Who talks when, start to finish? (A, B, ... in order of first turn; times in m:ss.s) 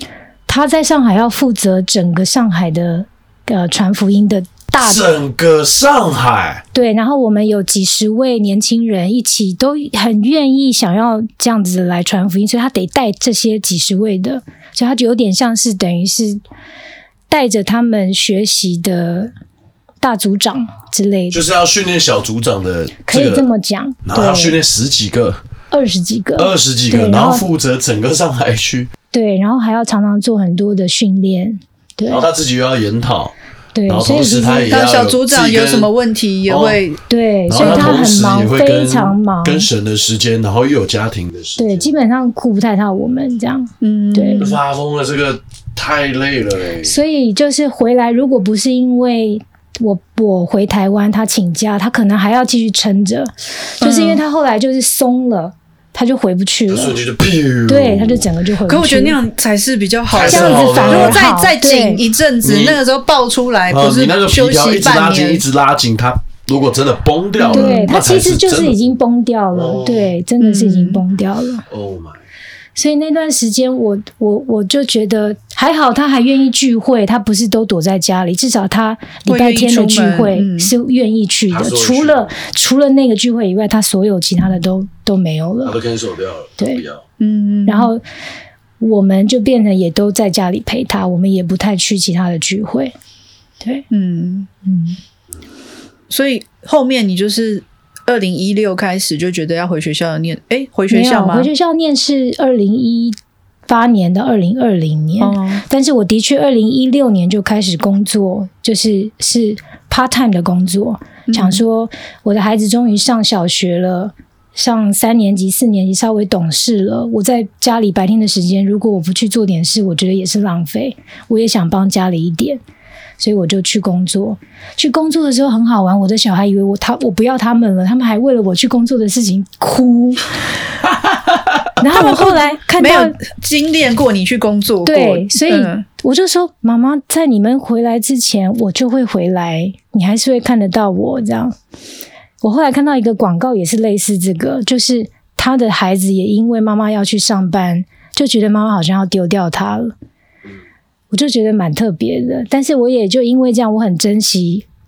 0:00.5-0:05.1 A
0:04.8-0:06.6 B
0:06.7-0:16.4 A
0:17.3-0:19.3 A
0:20.0-0:21.4 A
0:21.3-0:23.4 B
0:23.0-0:24.6 A
0:24.0-0:25.4 B
0:25.7-0:27.5 A
0:26.4-0:28.9 B
0:29.1-0:32.3 A
0:32.1-0:33.3 B
0:33.7-0:34.8 A
0:33.9-0:35.9 B
0:34.7-0:37.0 C
0:36.5-0:36.8 B
0:37.1-0:39.7 A
0:37.5-0:41.9 B
0:37.6-0:38.0 C
0:41.6-0:44.5 A
0:43.8-0:44.6 C
0:44.4-0:46.9 B
0:46.8-0:57.0 A
0:53.8-0:54.2 C
0:56.7-0:58.2 B
0:57.6-0:59.2 A
0:58.7-1:05.4 C
1:00.1-1:01.2 B
1:00.2-1:02.0 A
1:02.4-1:02.8 B
1:03.7-1:08.8 B
1:07.4-1:07.9 C
1:07.5-1:11.6 A
1:09.5-1:10.1 B
1:10.4-1:11.0 C
1:11.7-1:12.2 B
1:12.8-1:25.8 A
1:19.3-1:20.7 C
1:21.5-1:22.3 B
1:25.6-1:27.0 B
1:26.6-1:26.8 A
1:27.2-1:27.9 C
1:27.6-1:28.0 A
1:28.8-1:32.9 A
1:33.6-1:33.9 A
1:33.9-1:34.5 C
1:34.6-1:35.0 A
1:36.1-1:41.5 C
1:40.9-1:43.2 A
1:43.7-2:02.6 A
1:45.2-1:45.6 C
1:51.3-1:51.6 C
2:03.2-2:10.3 A
2:11.8-2:13.2 A
2:11.9-2:15.8 C
2:14.8-2:21.6 A
2:22.4-2:29.9 A
2:31.1-2:34.6 A